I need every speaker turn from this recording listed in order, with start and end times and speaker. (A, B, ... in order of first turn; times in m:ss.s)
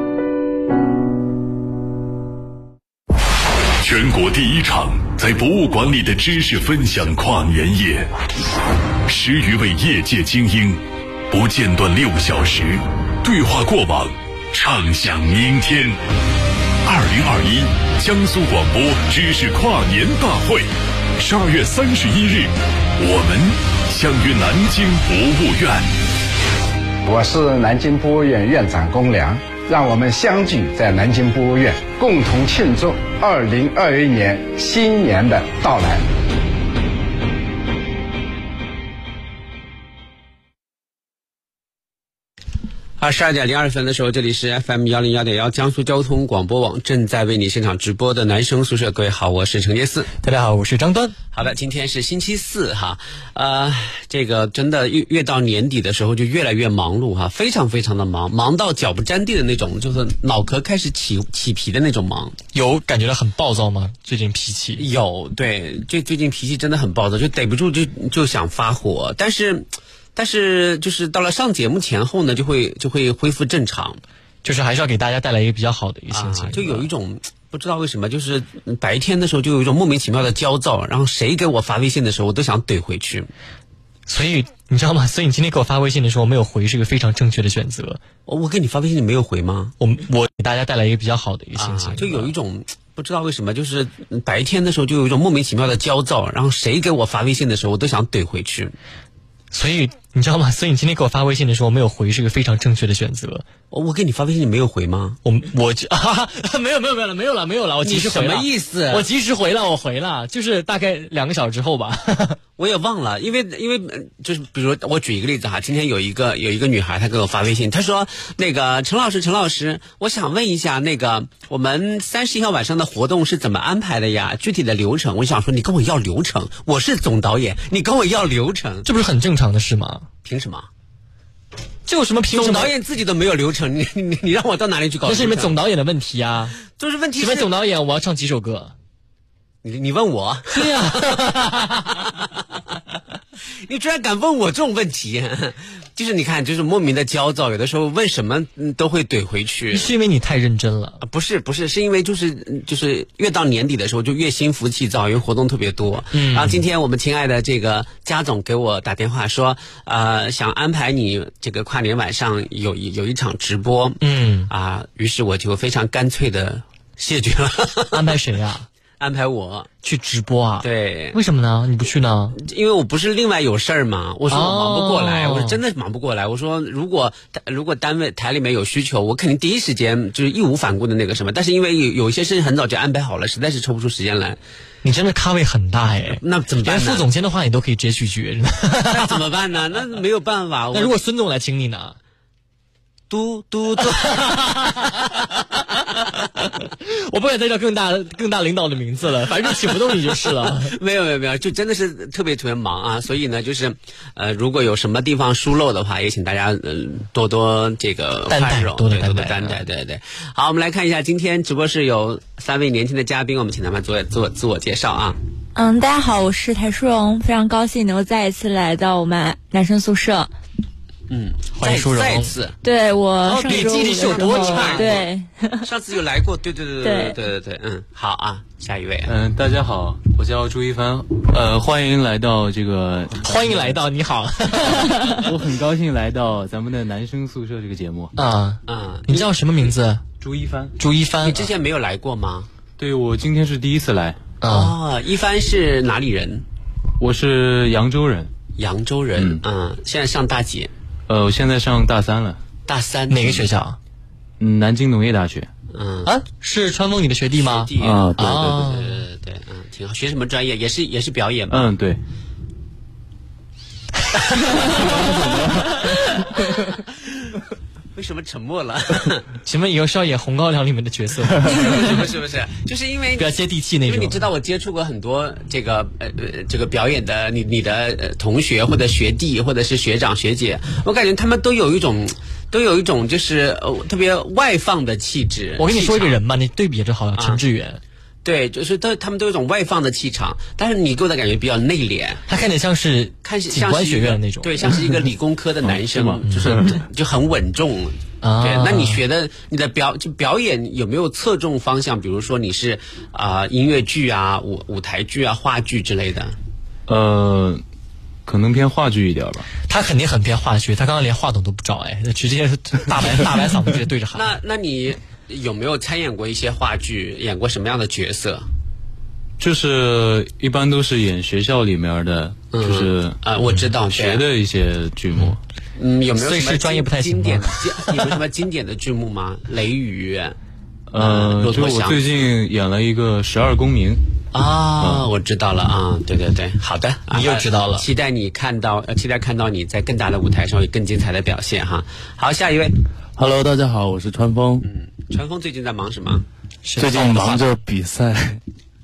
0:03.8-0:08.1 A
0:09.1-0:16.0 A
0:16.8-0:25.9 A
0:25.1-0:25.4 B
0:27.0-0:36.0 B
0:43.0-0:50.1 C
0:50.2-0:51.2 D
0:51.3-1:02.4 C
1:02.5-1:04.9 D
1:04.8-1:14.0 C
1:14.4-1:16.9 D
1:16.1-1:23.3 C
1:24.1-1:28.0 D
1:28.3-1:29.7 C
1:29.8-1:32.3 D
1:31.6-1:38.8 C
1:39.5-1:43.4 D
1:43.7-1:45.2 C
1:45.2-1:52.4 D
1:47.8-1:49.0 C
1:52.6-2:08.9 C
2:08.8-2:10.1 D
2:10.2-2:10.7 C
2:11.9-2:12.7 D
2:12.3-2:15.5 C
2:15.0-2:16.6 D
2:16.7-2:17.5 C
2:17.2-2:18.8 D
2:19.6-2:20.7 C
2:20.5-2:21.9 D
2:22.0-2:22.3 C
2:23.6-2:29.9 C
2:29.7-2:31.0 D
2:31.0-2:48.2 C
2:36.1-2:36.6 D
2:44.0-2:44.5 D
2:47.9-2:48.7 D
2:49.0-2:49.7 C
2:49.8-2:52.4 D
2:50.6-2:51.2 C
2:52.4-3:04.4 C
2:54.3-2:55.6 D
3:04.8-3:09.2 D
3:06.2-3:07.1 C
3:08.9-3:11.0 C
3:10.7-3:12.0 D
3:13.1-3:14.3 C
3:14.0-3:15.0 D
3:16.4-3:20.7 D
3:20.4-3:35.2 C
3:28.3-3:29.6 D
3:35.6-3:40.3 E
3:41.1-3:42.6 C
3:41.6-3:42.4 D
3:42.6-3:45.7 E
3:43.3-3:45.0 D
3:43.5-3:45.1 C
3:45.6-3:49.1 C
3:46.8-3:47.2 E
3:49.0-3:53.8 F
3:53.2-3:55.2 D
3:55.2-3:58.1 F
3:58.2-4:00.0 D
3:58.7-3:59.3 C
4:00.2-4:00.8 F
4:00.8-4:01.5 D
4:01.2-4:02.5 C
4:02.8-4:04.2 F
4:04.4-4:04.8 D
4:04.5-4:06.4 C
4:07.0-4:08.3 F
4:08.6-4:10.7 C
4:11.1-4:12.4 F
4:12.7-4:13.5 C
4:13.1-4:13.8 D
4:14.4-4:15.5 F
4:15.7-4:16.1 C
4:16.0-4:19.0 D
4:17.4-4:21.7 C
4:17.8-4:18.1 F
4:17.8-4:18.4 G
4:21.5-4:22.0 F
4:24.4-4:25.0 C
4:28.0-4:29.3 C
4:29.4-4:32.1 D
4:31.5-4:46.2 C
4:33.2-4:34.3 D
4:45.6-4:47.8 D
4:48.2-4:52.2 C
4:52.3-4:54.8 D
4:53.2-5:06.4 C
4:55.6-4:56.7 F
4:56.2-4:56.6 D
4:58.2-4:59.0 D
5:06.9-5:07.6 F
5:08.3-5:09.5 F
5:09.7-5:14.4 D
5:14.1-5:18.5 C
5:19.4-5:23.2 F
5:22.5-5:24.2 C
5:23.9-5:25.4 F
5:25.8-5:30.4 C
5:26.2-5:28.2 D
5:30.9-5:34.0 F
5:31.0-5:32.0 C
5:34.3-5:42.8 C
5:34.8-5:35.1 F
5:37.1-5:37.9 D
5:43.2-5:44.7 G
5:44.6-5:46.2 C
5:46.6-5:47.5 D
5:46.8-5:48.4 G